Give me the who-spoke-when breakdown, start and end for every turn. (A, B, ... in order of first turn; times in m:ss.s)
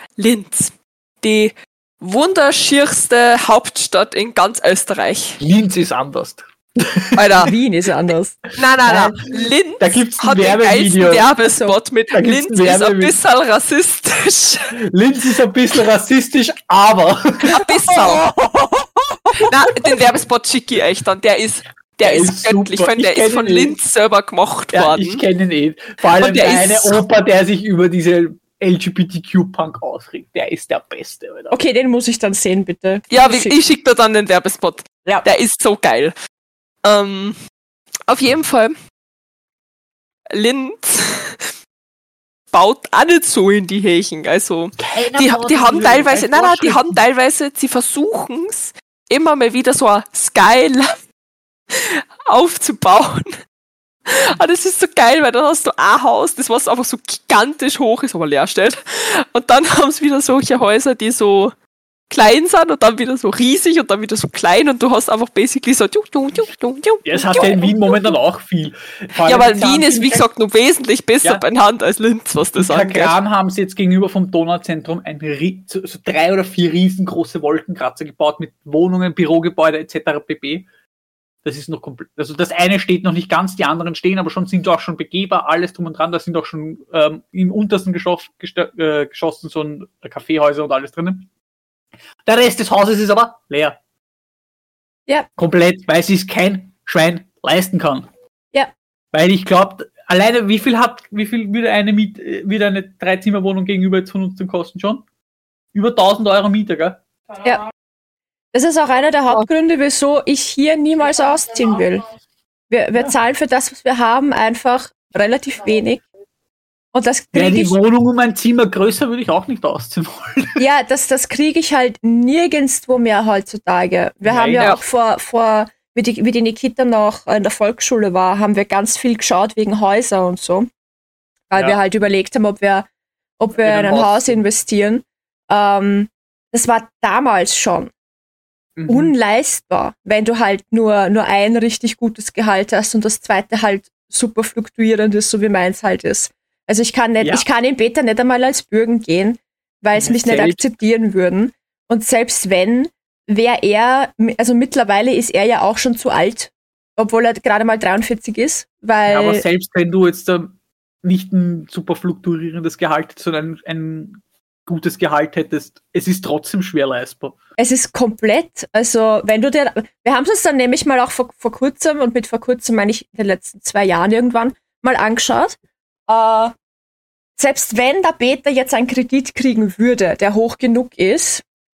0:00.2-0:05.4 A
0:05.4-0:07.5 B
0:07.2-0:07.5 A
0:07.4-0:08.4 C
0:08.6-0:14.8 A
0:08.8-0:11.3 B
0:11.4-0:11.8 C
0:12.1-0:13.2 B
0:14.7-0:18.2 B
0:17.5-0:18.2 A
0:18.2-0:19.5 C
0:19.4-0:25.2 A
0:22.0-0:23.8 B
0:24.7-0:31.5 B
0:26.2-0:27.0 A
0:31.5-0:33.6 C
0:33.1-0:36.1 A
0:36.8-0:37.4 A
0:38.1-0:38.7 A
0:40.3-0:41.5 A
0:42.5-0:51.0 A
0:44.8-0:47.0 B
0:51.7-0:53.3 A
0:54.1-1:01.5 A
1:02.1-1:08.1 A
1:07.0-1:10.2 B
1:09.2-1:13.1 A
1:12.6-1:20.6 B
1:21.4-1:31.3 B
1:32.2-1:33.8 B
1:35.4-1:38.1 B
1:39.1-1:45.0 B
1:45.7-1:47.0 B
1:48.5-1:52.0 C
1:52.7-1:56.0 C
1:56.9-1:57.8 C
1:57.3-2:00.6 B
2:00.6-2:10.7 C
2:04.2-2:04.7 B
2:04.6-2:04.8 A
2:11.5-2:17.9 C
2:13.6-2:14.4 B
2:18.8-2:19.1 B
2:18.9-2:39.4 C
2:27.2-2:27.4 B
2:29.9-2:30.6 B
2:39.0-2:47.4 B
2:47.6-2:55.6 C
2:56.1-2:56.5 C
2:57.4-3:01.4 C